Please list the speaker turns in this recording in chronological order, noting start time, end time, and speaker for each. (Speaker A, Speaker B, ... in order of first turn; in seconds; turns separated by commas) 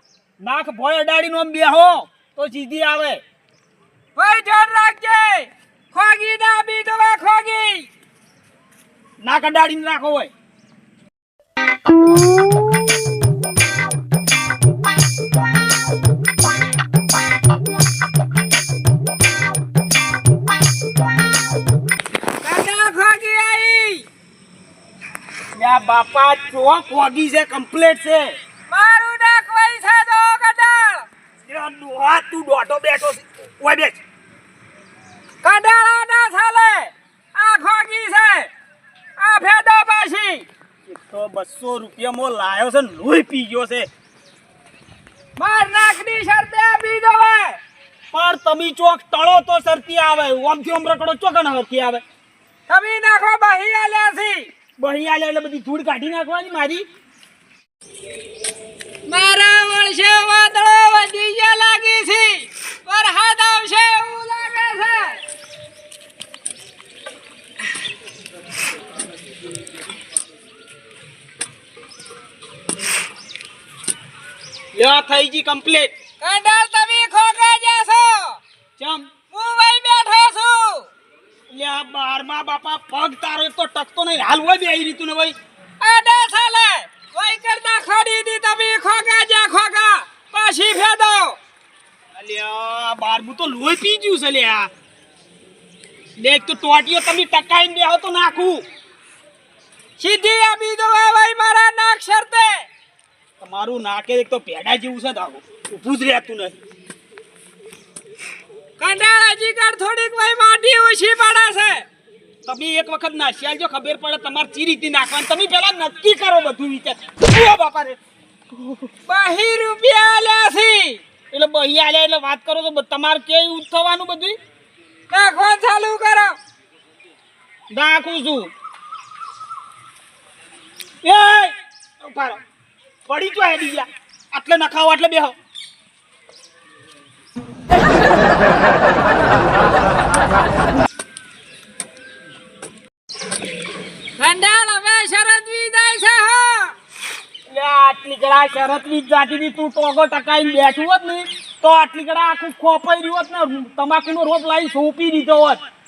Speaker A: 0.4-3.2, Speaker B: 4.2-7.9, Speaker A: 9.2-10.3, Speaker B: 22.4-24.1, Speaker A: 25.6-28.4, Speaker B: 28.7-31.1, Speaker A: 31.5-34.0, Speaker B: 35.4-38.5, Speaker B: 39.2-40.5, Speaker A: 40.9-43.9, Speaker B: 45.4-47.6, Speaker A: 48.1-52.0, Speaker B: 52.7-54.5, Speaker A: 54.8-56.9, Speaker B: 59.1-65.2, Speaker A: 74.7-75.9, Speaker B: 76.2-78.4, Speaker A: 78.8-79.1, Speaker B: 79.3-80.9, Speaker A: 81.5-85.4, Speaker B: 85.8-91.4, Speaker A: 92.2-94.7, Speaker A: 96.2-98.6, Speaker B: 100.0-102.7, Speaker A: 103.4-106.6, Speaker B: 108.8-111.9, Speaker A: 112.5-118.0, Speaker A: 118.5-118.9, Speaker B: 119.1-121.0, Speaker A: 121.3-124.4, Speaker B: 125.1-126.4, Speaker A: 127.7-128.5, Speaker A: 131.0-132.4, Speaker A: 133.1-135.3, Speaker B: 144.2-146.8, Speaker A: 147.5-155.6